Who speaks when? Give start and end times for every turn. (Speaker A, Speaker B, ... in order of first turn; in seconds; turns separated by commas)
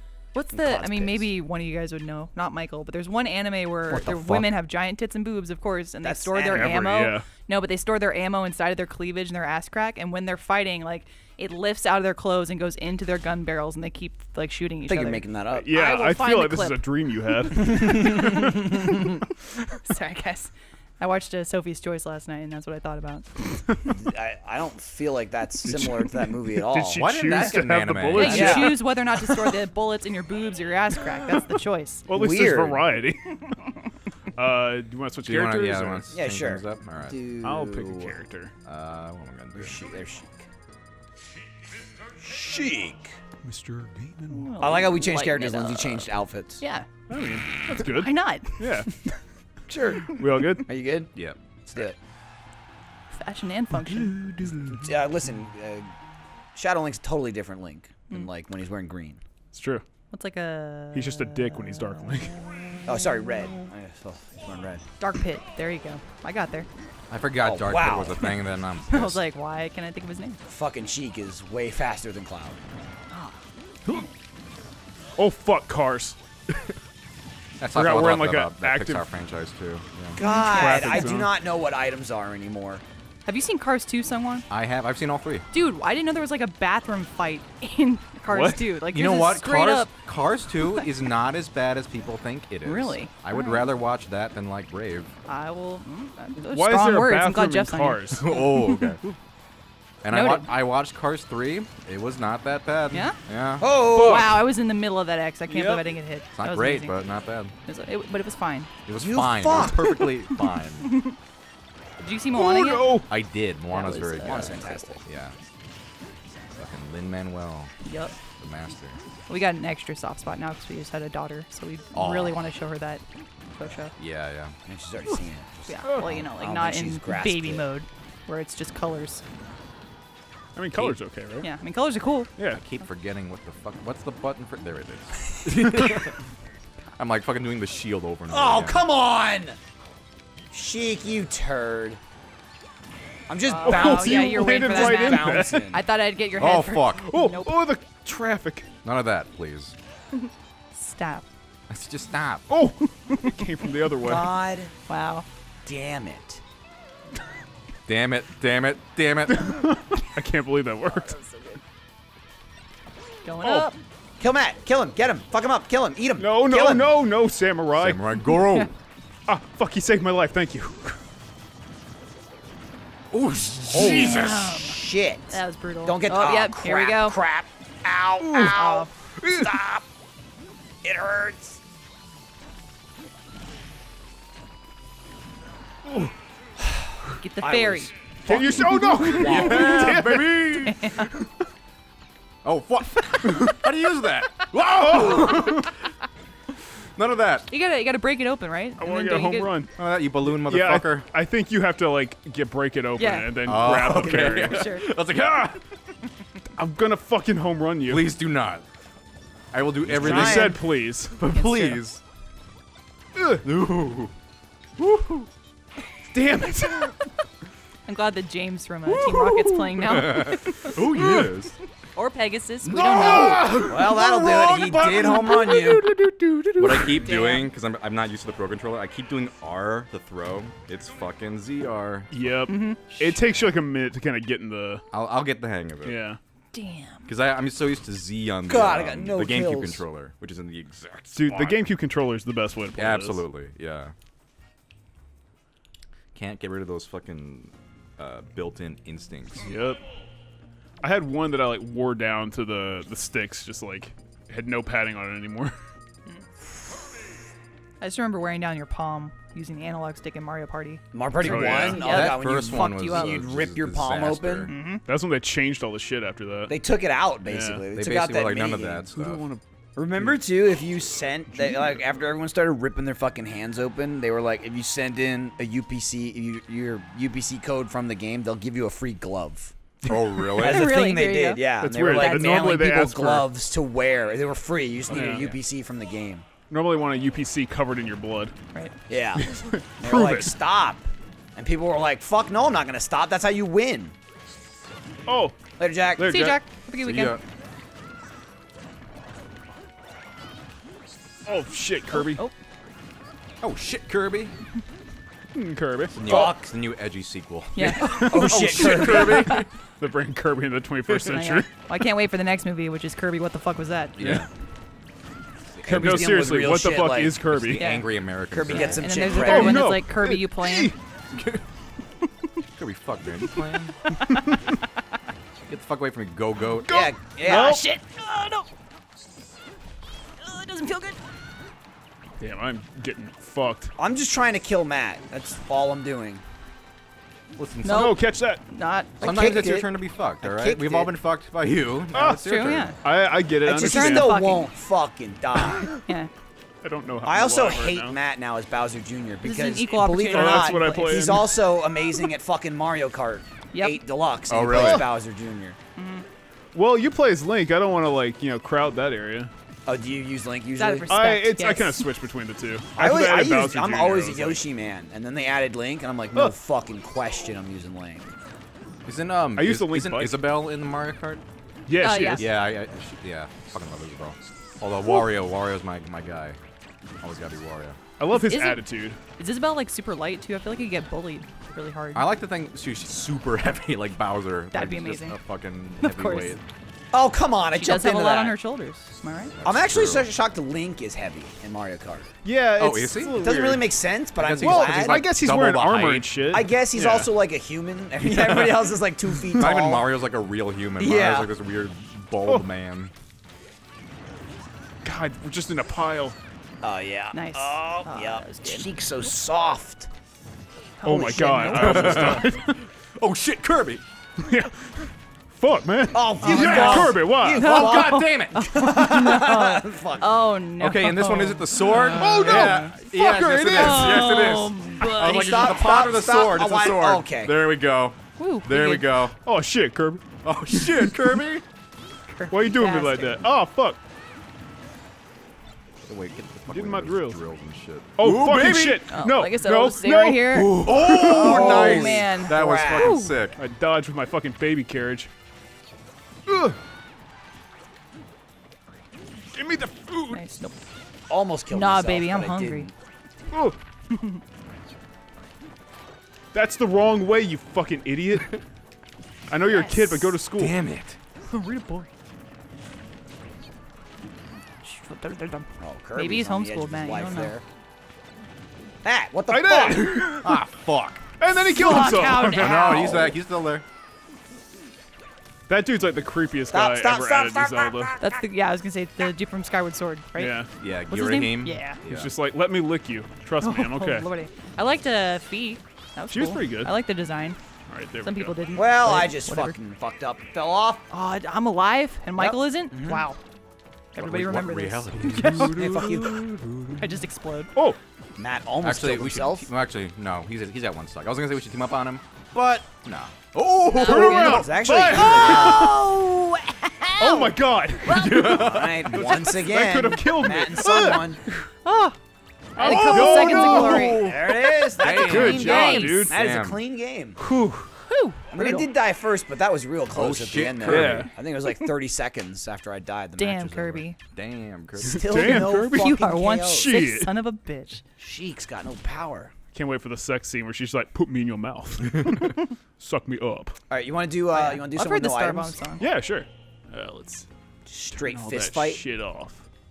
Speaker A: 0.3-16.9, Speaker B: 0.5-1.3, Speaker C: 3.9-4.5, Speaker B: 6.0-7.0, Speaker D: 6.5-7.2, Speaker B: 14.9-15.7, Speaker D: 15.5-18.4, Speaker A: 17.5-19.3, Speaker A: 19.8-23.6, Speaker B: 23.9-27.6, Speaker D: 25.6-29.6, Speaker C: 26.9-28.7, Speaker A: 28.1-32.1, Speaker B: 28.1-28.9, Speaker D: 32.1-33.4, Speaker B: 32.1-32.9, Speaker D: 34.4-36.1, Speaker C: 35.2-37.2, Speaker B: 36.1-38.2, Speaker D: 37.4-38.5, Speaker C: 38.6-39.8, Speaker B: 39.5-40.4, Speaker B: 42.2-43.1, Speaker D: 43.4-44.5, Speaker A: 44.3-46.1, Speaker B: 44.6-46.6, Speaker A: 46.6-46.9, Speaker D: 47.1-49.1, Speaker A: 47.6-49.0, Speaker B: 49.7-51.1, Speaker D: 50.0-50.7, Speaker B: 51.6-52.0, Speaker A: 53.1-54.2, Speaker D: 53.7-54.9, Speaker B: 54.7-55.9, Speaker B: 56.5-59.2, Speaker D: 59.5-59.8, Speaker A: 60.1-62.3, Speaker D: 60.9-62.4, Speaker B: 62.8-64.8, Speaker A: 65.0-66.7, Speaker C: 67.1-69.2, Speaker B: 67.4-68.3, Speaker A: 68.9-70.4, Speaker B: 70.5-72.6, Speaker A: 73.1-73.4, Speaker D: 75.2-76.2, Speaker C: 77.6-80.2, Speaker D: 77.7-79.1, Speaker B: 80.1-82.8, Speaker A: 80.2-81.2, Speaker D: 80.5-81.3, Speaker A: 83.2-84.5, Speaker C: 84.5-85.5, Speaker A: 85.5-89.9, Speaker D: 88.3-88.7, Speaker C: 88.8-95.1, Speaker A: 90.6-90.9, Speaker A: 92.6-93.7, Speaker A: 95.3-98.9, Speaker D: 96.4-98.2, Speaker C: 98.2-99.0, Speaker C: 100.0-103.7, Speaker A: 100.1-100.5, Speaker A: 102.9-103.2, Speaker B: 103.6-104.4, Speaker A: 103.8-107.0, Speaker D: 103.9-104.4, Speaker D: 105.5-105.8, Speaker C: 106.3-107.5, Speaker A: 107.6-108.7, Speaker C: 108.9-110.9, Speaker B: 109.0-110.0, Speaker A: 110.8-111.2, Speaker A: 112.0-113.0, Speaker D: 112.3-113.0, Speaker C: 113.1-115.3, Speaker A: 113.7-115.0, Speaker B: 114.2-115.0, Speaker C: 116.5-117.7, Speaker A: 117.8-118.2, Speaker C: 118.4-119.0, Speaker A: 119.3-123.0, Speaker C: 121.9-122.3, Speaker A: 123.5-123.9, Speaker C: 124.0-124.5, Speaker B: 124.7-127.6, Speaker A: 125.7-129.2, Speaker D: 130.6-131.5, Speaker A: 131.4-132.3, Speaker D: 132.4-132.6, Speaker C: 132.5-136.1, Speaker B: 135.4-135.8, Speaker C: 137.0-138.8, Speaker B: 138.3-139.6, Speaker B: 140.5-142.0, Speaker B: 143.3-145.8, Speaker A: 143.4-147.6, Speaker D: 143.6-145.8, Speaker C: 146.4-147.1, Speaker D: 147.0-148.7, Speaker C: 148.8-149.8, Speaker A: 150.2-151.3, Speaker C: 151.7-152.4, Speaker D: 152.5-154.3, Speaker A: 152.8-153.4, Speaker B: 154.0-154.7, Speaker A: 154.9-155.2, Speaker B: 155.6-156.4, Speaker C: 157.9-159.6, Speaker D: 159.3-161.2, Speaker B: 161.1-161.6, Speaker A: 163.2-163.7, Speaker D: 163.4-163.7, Speaker B: 164.2-166.9, Speaker D: 166.2-168.0, Speaker C: 167.8-168.7, Speaker D: 169.3-171.0, Speaker C: 173.1-174.4, Speaker B: 173.7-179.8, Speaker A: 173.7-177.2, Speaker D: 178.2-178.6, Speaker A: 178.3-178.9, Speaker D: 179.2-179.6, Speaker B: 180.8-181.6, Speaker D: 185.8-186.1, Speaker B: 186.7-189.7, Speaker A: 187.2-187.9, Speaker D: 188.2-190.6, Speaker C: 188.3-191.2, Speaker A: 188.9-189.8, Speaker A: 190.6-191.1, Speaker C: 192.4-195.7, Speaker D: 193.3-193.6, Speaker D: 194.7-195.7, Speaker C: 196.9-197.5, Speaker A: 197.5-199.6, Speaker D: 198.8-199.7, Speaker C: 199.8-201.1, Speaker D: 200.3-204.7, Speaker A: 203.0-203.4, Speaker C: 203.4-205.6, Speaker A: 204.1-204.8, Speaker D: 206.6-208.1, Speaker C: 207.9-208.6, Speaker C: 209.5-210.6, Speaker D: 209.9-211.2, Speaker B: 209.9-210.6, Speaker C: 211.2-212.0, Speaker A: 211.3-211.8, Speaker D: 213.1-213.4, Speaker C: 213.4-214.1, Speaker C: 214.8-215.2, Speaker D: 216.1-217.0, Speaker A: 217.9-221.2, Speaker D: 218.9-220.2, Speaker C: 219.9-221.6, Speaker D: 220.8-221.3, Speaker A: 221.9-223.7, Speaker C: 222.6-223.7, Speaker D: 222.9-226.9, Speaker B: 223.7-225.9, Speaker C: 226.6-233.4, Speaker A: 227.0-227.5, Speaker D: 232.1-234.8, Speaker A: 232.5-232.9, Speaker C: 234.9-236.0, Speaker D: 235.8-236.2, Speaker A: 236.5-237.1, Speaker C: 237.1-241.6, Speaker B: 238.5-239.8, Speaker D: 241.1-243.2, Speaker C: 242.7-243.9, Speaker C: 246.1-249.5, Speaker D: 249.4-249.8, Speaker D: 250.8-255.6, Speaker A: 257.8-263.2, Speaker B: 260.9-264.5, Speaker D: 261.2-262.0, Speaker C: 261.8-264.5, Speaker A: 264.5-264.8, Speaker D: 264.9-266.5, Speaker B: 266.5-268.9, Speaker D: 267.2-267.6, Speaker C: 267.7-269.3, Speaker D: 268.9-269.4, Speaker B: 269.8-279.5, Speaker D: 269.9-270.2, Speaker D: 271.3-271.7, Speaker C: 279.8-280.8, Speaker B: 280.2-286.2, Speaker A: 280.4-282.8, Speaker D: 281.6-283.3, Speaker D: 284.9-285.4, Speaker A: 285.0-285.4, Speaker D: 286.5-288.3, Speaker B: 288.9-293.9, Speaker D: 289.2-290.3, Speaker D: 295.1-296.4, Speaker B: 295.6-296.4, Speaker A: 296.0-297.2, Speaker C: 296.8-297.2, Speaker D: 301.2-302.2, Speaker A: 301.9-302.3, Speaker C: 303.4-304.4, Speaker D: 305.3-306.4, Speaker C: 305.9-309.5, Speaker B: 306.0-306.4, Speaker A: 307.5-308.1, Speaker B: 307.6-309.4, Speaker D: 307.7-311.5, Speaker A: 310.9-314.0, Speaker C: 314.0-314.3, Speaker D: 314.0-314.2, Speaker B: 315.6-317.2, Speaker D: 315.6-317.7, Speaker C: 315.7-316.0, Speaker C: 317.3-319.0, Speaker A: 317.6-317.9, Speaker B: 318.3-319.8, Speaker A: 318.4-320.8, Speaker D: 319.0-320.8, Speaker C: 321.1-321.4, Speaker C: 322.5-323.8, Speaker A: 323.9-324.4, Speaker C: 325.4-326.8, Speaker D: 326.6-327.6, Speaker B: 326.7-327.6, Speaker A: 327.2-328.5, Speaker A: 330.2-331.0, Speaker D: 332.2-333.7, Speaker B: 333.8-336.2, Speaker C: 337.3-338.0, Speaker A: 337.6-338.9, Speaker D: 337.7-338.4, Speaker B: 339.0-340.9, Speaker C: 339.0-342.8, Speaker D: 341.9-342.2, Speaker A: 342.2-342.8, Speaker D: 342.8-344.2, Speaker B: 343.4-345.7, Speaker A: 343.5-344.5, Speaker A: 345.8-346.1, Speaker D: 346.6-348.0, Speaker B: 347.0-355.6, Speaker A: 349.2-351.4, Speaker D: 350.1-351.5, Speaker A: 353.5-353.8, Speaker C: 354.3-354.8, Speaker D: 354.5-354.9, Speaker A: 355.8-356.1, Speaker D: 356.5-359.3, Speaker B: 359.6-360.9, Speaker A: 360.6-361.8, Speaker D: 360.9-364.4, Speaker B: 362.8-368.0, Speaker C: 368.9-371.2, Speaker D: 369.4-370.2, Speaker D: 371.7-372.3, Speaker A: 371.8-372.3, Speaker C: 371.8-376.4, Speaker C: 377.0-377.8, Speaker D: 378.0-379.0, Speaker A: 378.1-382.0, Speaker C: 381.9-386.4, Speaker A: 384.5-385.2, Speaker A: 385.8-386.4, Speaker B: 386.9-388.4, Speaker A: 387.5-389.3, Speaker C: 389.3-390.1, Speaker B: 389.4-392.1, Speaker D: 392.2-393.8, Speaker C: 392.6-393.2, Speaker B: 393.2-395.1, Speaker C: 394.2-396.2, Speaker D: 394.4-397.1, Speaker B: 396.3-399.9, Speaker D: 398.0-398.8, Speaker C: 399.3-402.9, Speaker B: 400.8-401.3, Speaker D: 404.8-406.1, Speaker B: 406.6-409.9, Speaker A: 407.1-408.7, Speaker B: 410.8-412.3, Speaker D: 410.8-412.6, Speaker C: 411.5-413.8, Speaker D: 414.2-417.5, Speaker B: 415.9-420.2, Speaker A: 416.2-422.8, Speaker C: 417.3-418.5, Speaker C: 420.6-429.2, Speaker D: 421.9-424.3, Speaker A: 423.5-425.5, Speaker B: 424.9-427.4, Speaker A: 428.2-428.9, Speaker D: 429.2-431.0, Speaker C: 430.2-431.4, Speaker A: 432.1-433.2, Speaker D: 432.3-433.8, Speaker C: 435.9-438.8, Speaker D: 436.5-437.2, Speaker D: 438.0-441.4, Speaker A: 438.8-443.2, Speaker C: 440.6-443.4, Speaker B: 440.8-443.1, Speaker D: 443.4-445.1, Speaker D: 446.3-446.6, Speaker D: 449.3-450.2, Speaker A: 450.1-450.5, Speaker B: 451.1-452.7, Speaker A: 451.5-452.7, Speaker D: 453.3-453.6, Speaker A: 453.9-454.2, Speaker D: 456.3-458.4, Speaker D: 459.3-460.6, Speaker A: 459.4-460.1, Speaker C: 460.4-461.0, Speaker A: 461.3-461.9, Speaker A: 464.6-467.3, Speaker B: 465.6-467.4, Speaker B: 468.8-470.1, Speaker D: 469.3-470.4, Speaker C: 470.1-471.1, Speaker D: 471.2-473.0, Speaker A: 471.5-473.2, Speaker C: 471.7-473.6, Speaker D: 475.5-477.9, Speaker B: 476.5-478.1, Speaker A: 478.0-481.8, Speaker D: 480.1-480.5, Speaker C: 480.6-482.1, Speaker D: 481.8-484.1, Speaker A: 483.4-487.4, Speaker D: 486.1-486.7, Speaker D: 487.7-488.4, Speaker A: 488.0-489.6, Speaker B: 488.5-490.9, Speaker A: 490.9-493.2, Speaker B: 492.2-493.1, Speaker A: 493.9-495.6, Speaker C: 493.9-496.2, Speaker D: 494.9-496.8, Speaker B: 495.4-496.3, Speaker A: 496.8-497.5, Speaker B: 498.2-499.5, Speaker C: 498.6-505.1, Speaker A: 503.7-507.2, Speaker D: 503.8-505.8, Speaker B: 503.9-505.9, Speaker D: 507.0-511.5, Speaker B: 507.0-507.3, Speaker C: 507.8-509.1, Speaker B: 508.1-511.2, Speaker A: 511.6-512.0, Speaker A: 512.5-514.0, Speaker C: 512.6-516.6, Speaker D: 512.6-516.1, Speaker B: 513.3-517.2, Speaker A: 515.2-516.1, Speaker D: 517.2-517.7, Speaker A: 517.8-518.7, Speaker B: 518.3-523.8, Speaker C: 519.9-521.1, Speaker D: 520.6-521.1, Speaker A: 523.2-524.0, Speaker C: 524.1-525.3, Speaker D: 524.8-527.1, Speaker B: 524.8-526.9, Speaker A: 525.5-527.8, Speaker B: 528.0-529.3, Speaker D: 529.5-533.5, Speaker B: 533.7-535.6, Speaker A: 534.3-535.8, Speaker D: 535.8-537.2, Speaker B: 537.6-538.8, Speaker D: 537.9-539.4